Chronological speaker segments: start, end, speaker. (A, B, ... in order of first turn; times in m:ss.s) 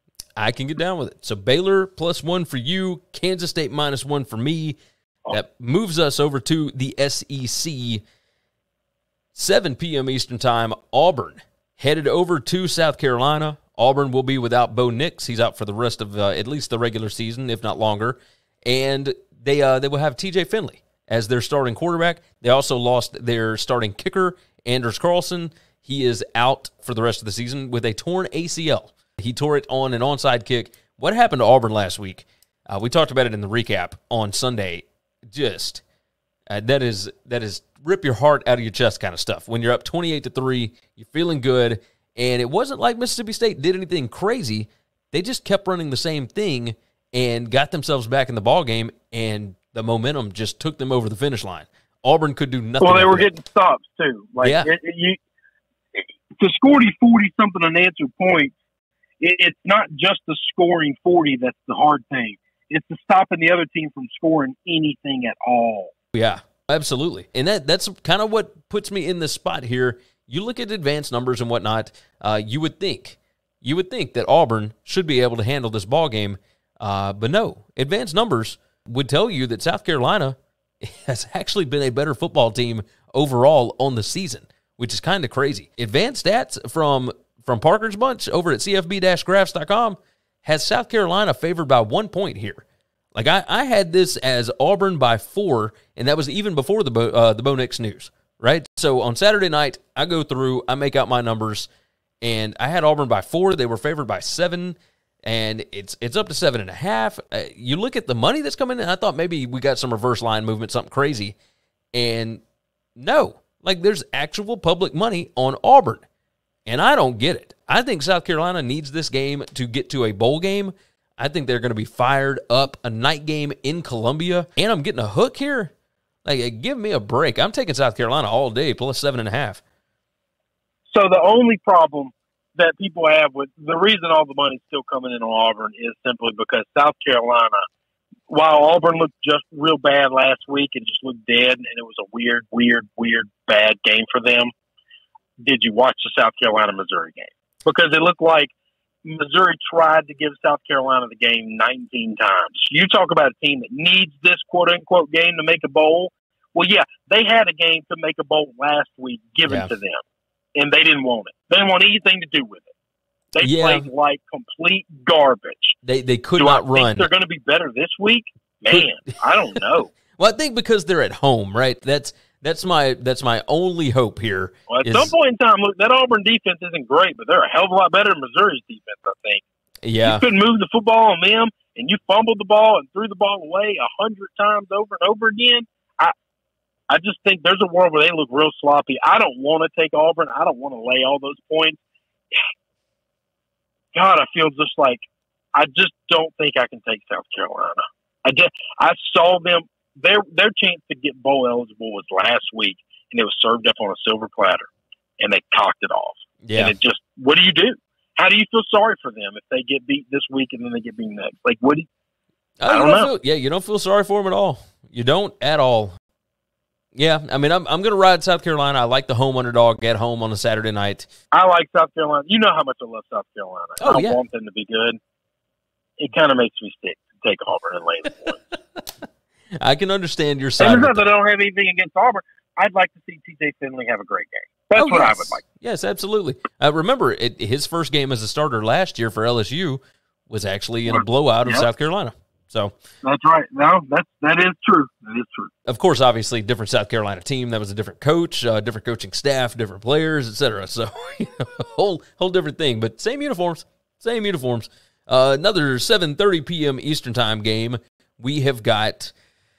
0:00.4-0:04.8 A
0:05.3-0:08.0 A
0:09.3-0:35.8 A
0:36.5-0:53.3 A
0:52.8-0:55.2 B
0:54.4-0:54.7 A
0:56.4-0:58.5 B
0:59.2-1:05.9 B
1:06.1-1:32.6 A
1:33.1-1:41.7 A
1:42.2-1:51.3 A
1:51.9-1:52.4 A
1:53.0-1:56.0 A
1:56.6-2:05.7 A
2:06.2-2:09.6 A
2:10.9-2:17.6 B
2:18.3-2:24.5 B
2:25.4-2:28.5 B
2:29.0-2:40.0 B
2:39.4-2:39.7 A
2:40.6-2:42.7 B
2:43.3-2:45.8 B
2:43.4-2:43.9 A
2:45.8-2:47.1 A
2:46.4-2:49.9 B
2:48.7-2:49.2 A
2:50.2-2:55.1 A
2:54.7-2:59.4 B
2:59.8-3:00.2 A
3:00.0-3:06.1 B
3:06.9-3:11.8 B
3:13.9-3:15.0 B
3:15.5-3:24.7 B
3:25.2-3:31.9 B
3:26.4-3:26.7 A
3:32.6-3:36.0 A
3:32.7-3:33.1 B
3:36.9-3:41.1 A
3:41.3-3:45.0 B
3:43.8-3:44.2 A
3:46.0-3:48.4 B
3:49.6-3:51.1 A
3:50.6-3:55.4 B
3:54.8-4:02.7 A
4:00.9-4:01.7 B
4:03.0-4:05.5 B
4:05.6-4:19.1 A